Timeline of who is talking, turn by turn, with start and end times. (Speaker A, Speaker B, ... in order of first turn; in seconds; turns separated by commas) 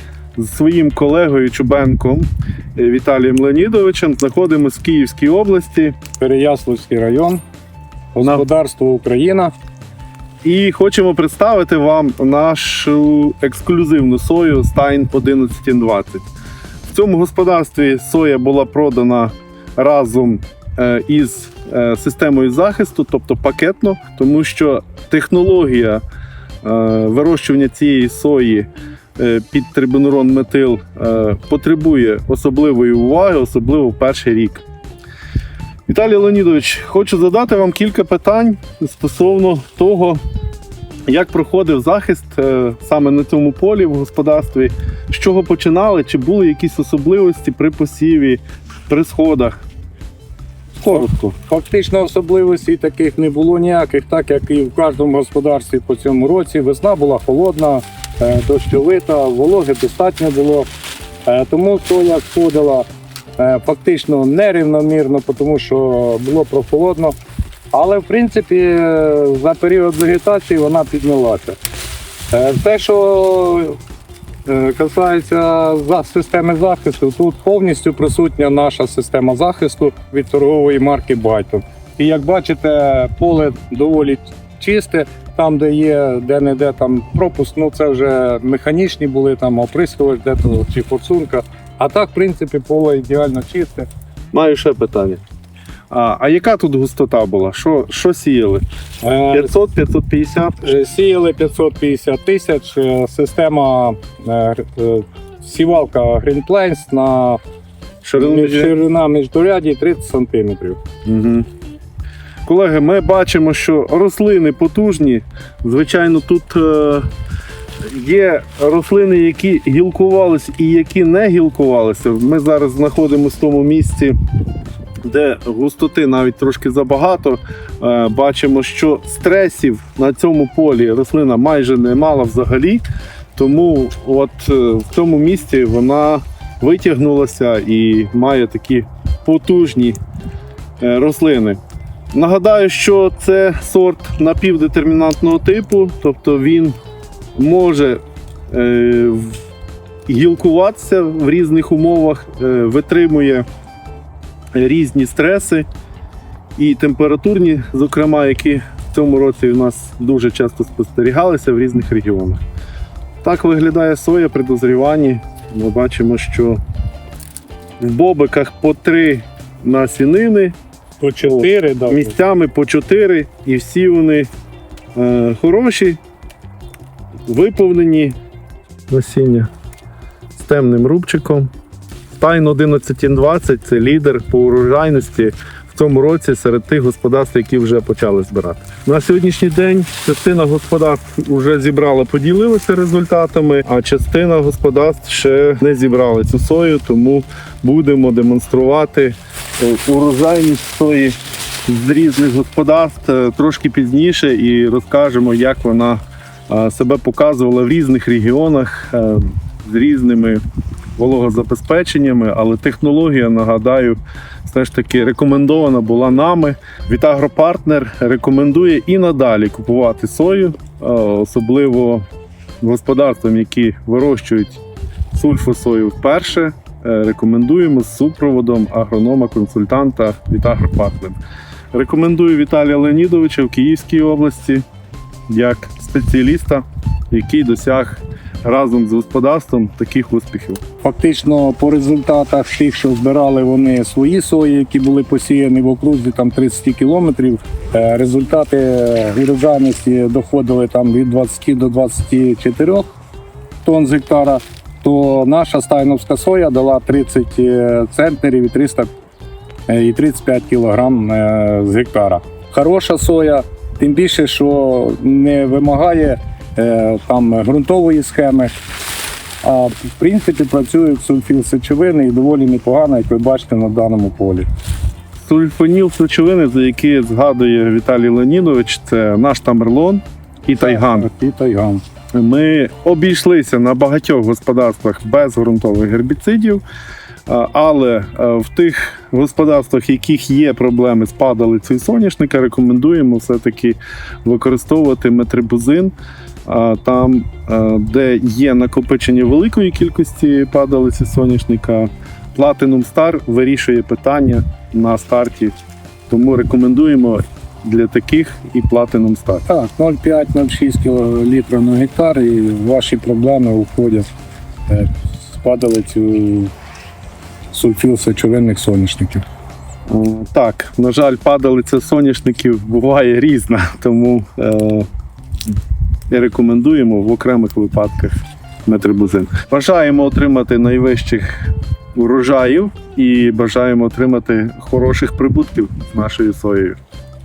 Speaker A: 0.3-6.0, Speaker B: 6.2-7.4, Speaker B: 8.1-9.5, Speaker A: 10.4-16.2, Speaker A: 16.9-26.0, Speaker A: 26.6-34.6, Speaker A: 35.9-40.2, Speaker A: 41.1-49.6, Speaker A: 50.8-51.3, Speaker B: 50.8-60.7, Speaker B: 61.2-67.2, Speaker B: 67.7-71.6, Speaker B: 72.3-73.8, Speaker B: 74.5-93.9, Speaker A: 94.3-95.2, Speaker A: 95.9-98.6, Speaker B: 99.0-99.5, Speaker A: 99.3-100.6, Speaker B: 100.6-107.4, Speaker A: 108.0-108.8, Speaker B: 108.2-110.8, Speaker A: 111.0-111.5, Speaker A: 112.5-117.1, Speaker A: 117.8-124.2, Speaker A: 125.0-140.0, Speaker A: 140.8-141.6, Speaker A: 142.1-146.8, Speaker A: 147.4-149.4, Speaker A: 150.1-153.4, Speaker A: 154.5-155.7, Speaker A: 156.6-162.4, Speaker A: 163.2-166.6, Speaker A: 167.8-170.5, Speaker B: 171.0-172.2, Speaker A: 171.2-174.3, Speaker A: 174.9-176.0, Speaker A: 177.3-178.2, Speaker A: 178.9-179.5, Speaker A: 180.3-181.5, Speaker A: 182.2-210.4, Speaker A: 211.0-222.0, Speaker A: 222.6-224.6, Speaker A: 225.1-231.2, Speaker A: 231.7-234.6, Speaker A: 235.3-240.6, Speaker B: 240.8-252.9, Speaker B: 253.6-258.9, Speaker B: 259.7-268.5, Speaker B: 269.4-274.5, Speaker A: 275.2-281.1, Speaker B: 280.6-281.8, Speaker A: 282.1-286.6, Speaker A: 287.3-295.9, Speaker A: 296.4-305.5, Speaker A: 306.1-309.4, Speaker B: 309.5-314.1, Speaker B: 314.7-316.5, Speaker B: 317.5-319.2, Speaker A: 319.9-324.9, Speaker A: 326.1-336.8